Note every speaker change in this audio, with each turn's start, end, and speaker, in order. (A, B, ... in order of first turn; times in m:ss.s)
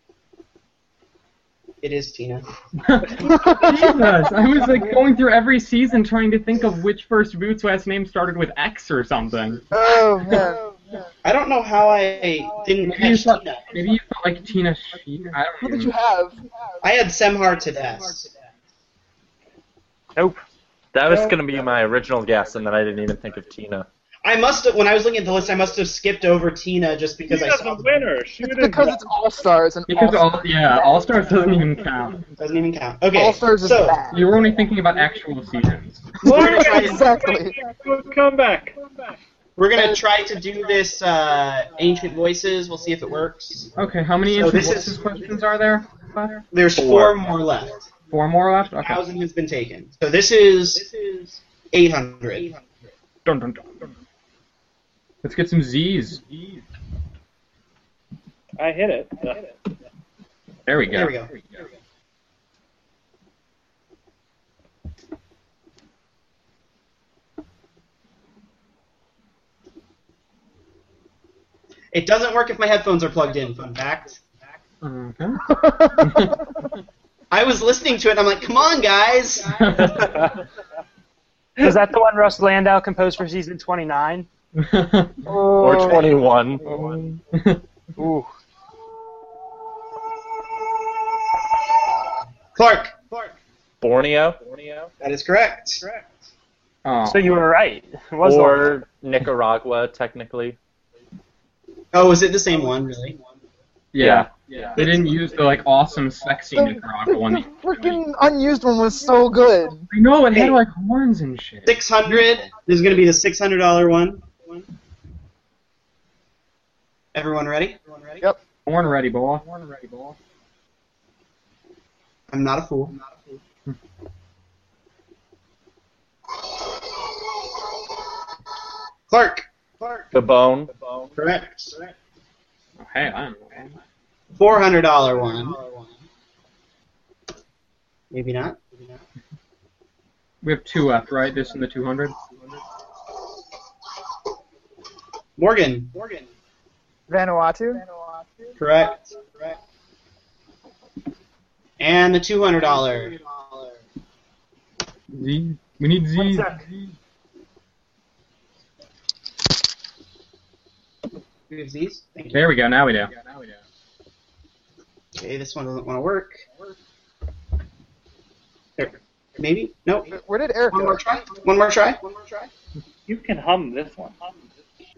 0:01.8-0:02.4 A
0:02.8-0:09.6 B
0:03.2-0:04.3 C
0:09.7-0:10.6 C
0:11.2-0:13.7 A
0:12.9-0:16.0 B
0:15.6-0:16.4 C
0:16.8-0:18.3 A
0:20.9-0:23.9 D
0:24.2-0:27.9 A
0:27.3-0:29.1 E
0:28.4-0:30.4 C
0:29.9-0:32.3 B
0:32.4-0:34.0 A
0:33.1-0:34.2 C
0:34.1-0:36.2 B
0:36.2-0:37.6 C
0:36.2-0:37.1 A
0:36.2-0:38.8 E
0:39.6-0:43.7 A
0:43.8-0:46.5 B
0:44.3-0:45.1 A
0:46.5-0:47.8 A
0:48.1-0:49.0 B
0:48.8-0:50.9 A
0:51.7-0:52.5 A
0:53.2-0:53.9 B
0:55.2-0:56.2 B
0:58.6-0:59.4 E
1:00.7-1:01.6 B
1:00.9-1:01.3 A
1:11.9-1:14.2 A
1:14.8-1:15.4 B
1:15.4-1:16.4 C
1:16.0-1:16.4 B
1:17.3-1:19.9 A
1:19.6-1:20.3 B
1:21.6-1:24.3 F
1:24.6-1:25.3 B
1:25.2-1:26.2 C
1:25.6-1:26.7 D
1:26.6-1:27.6 B
1:28.0-1:28.3 F
1:32.6-1:33.0 A
1:33.8-1:34.4 D
1:35.0-1:35.8 A
1:36.8-1:37.3 B
1:37.1-1:38.8 F
1:38.2-1:40.6 D
1:41.9-1:43.2 A
1:43.9-1:48.0 B
1:44.0-1:44.3 D
1:44.8-1:45.0 A
1:46.6-1:49.9 C
1:49.9-1:52.3 B
1:50.3-1:50.6 A
1:51.7-1:54.3 A
1:57.1-1:57.8 A
1:58.7-2:00.2 B
2:02.3-2:03.0 A
2:09.1-2:09.5 A
2:10.1-2:10.7 D
2:11.2-2:11.8 A
2:12.8-2:13.7 B
2:14.3-2:15.6 A
2:18.1-2:18.6 A
2:20.4-2:22.2 B
2:25.4-2:25.9 A
2:27.1-2:27.8 C
2:28.6-2:29.5 A
2:31.8-2:33.2 A
2:35.1-2:36.7 B
2:41.5-2:42.5 A
2:42.3-2:43.2 B
2:45.2-2:46.4 A
2:48.8-2:50.1 A
2:50.1-2:51.0 C
2:50.7-2:52.5 A
2:53.1-2:54.2 E